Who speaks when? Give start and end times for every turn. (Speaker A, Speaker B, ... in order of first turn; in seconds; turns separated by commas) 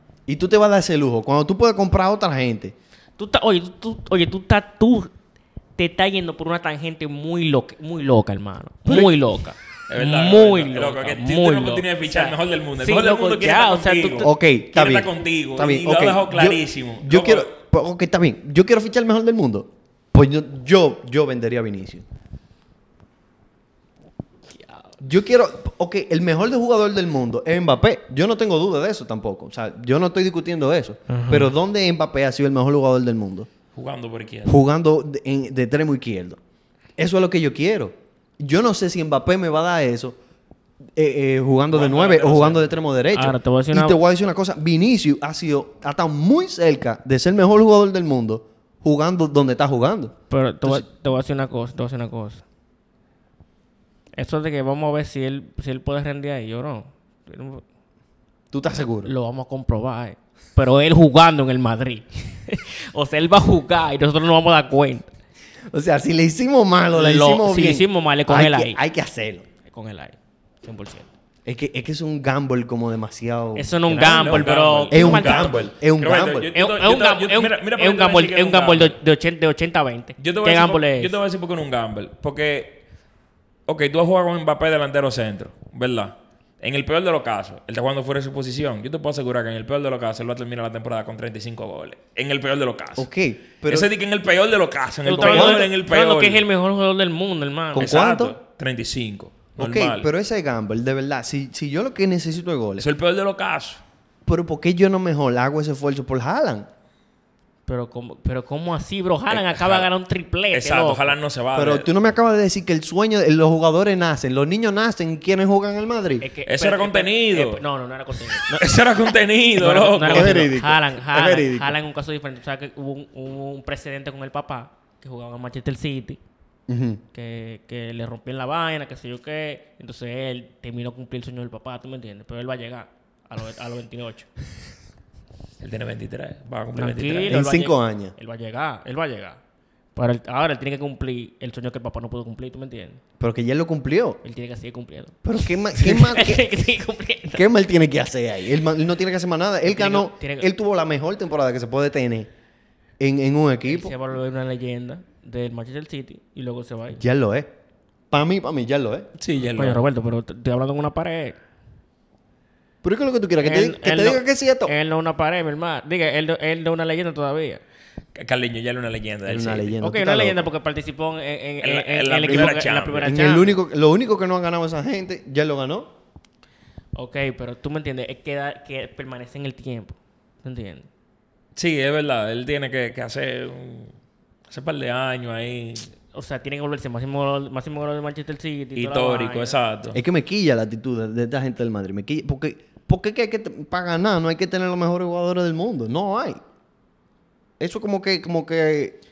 Speaker A: 0.3-2.7, Speaker B: 3.2-5.1, Speaker B: 5.8-14.3, Speaker A: 8.8-9.1, Speaker C: 9.9-17.5, Speaker A: 14.2-22.0, Speaker B: 24.6-24.9, Speaker A: 25.0-33.5, Speaker B: 31.1-31.5, Speaker C: 33.7-34.6, Speaker A: 34.5-36.4, Speaker A: 37.0-40.2, Speaker A: 41.0-50.9, Speaker C: 41.7-42.7, Speaker B: 43.1-44.0, Speaker B: 50.3-52.4, Speaker B: 54.2-57.6, Speaker A: 58.5-59.1, Speaker B: 59.0-65.1, Speaker A: 65.7-69.5, Speaker B: 66.9-68.8, Speaker B: 69.6-71.1, Speaker A: 71.5-76.5, Speaker B: 73.5-75.7, Speaker C: 73.9-79.0, Speaker B: 76.5-81.2, Speaker C: 80.2-82.8, Speaker C: 83.7-93.1, Speaker A: 93.0-93.9, Speaker C: 93.7-96.4, Speaker B: 95.0-98.0, Speaker A: 95.2-95.7, Speaker A: 97.7-98.3, Speaker C: 97.8-100.1, Speaker A: 99.6-102.9, Speaker C: 102.8-103.8, Speaker A: 104.2-106.7, Speaker B: 107.7-111.1, Speaker C: 109.3-109.9, Speaker C: 110.5-111.9, Speaker A: 111.5-116.2, Speaker B: 116.2-118.6, Speaker C: 116.5-117.6, Speaker C: 118.4-120.5, Speaker B: 119.5-126.2, Speaker A: 120.1-121.8, Speaker A: 126.7-127.0, Speaker B: 127.1-134.3, Speaker C: 135.6-137.4, Speaker B: 136.7-139.4, Speaker A: 137.3-138.1, Speaker B: 139.9-143.0, Speaker A: 143.2-144.2, Speaker B: 144.2-147.4, Speaker A: 145.2-146.5, Speaker A: 147.3-152.3, Speaker B: 149.6-150.5, Speaker A: 153.0-153.9, Speaker B: 153.7-157.0, Speaker A: 157.0-157.5, Speaker A: 158.1-159.1, Speaker C: 159.2-159.8, Speaker B: 159.5-161.4, Speaker A: 162.8-164.7, Speaker B: 163.4-167.6, Speaker C: 168.1-169.7, Speaker A: 169.2-170.5, Speaker B: 169.8-173.5, Speaker C: 171.6-173.1, Speaker A: 172.3-175.9, Speaker B: 176.9-180.9, Speaker C: 181.6-183.9, Speaker C: 184.5-185.9, Speaker B: 186.1-189.6, Speaker C: 188.8-190.0, Speaker A: 189.9-196.4, Speaker A: 197.6-199.0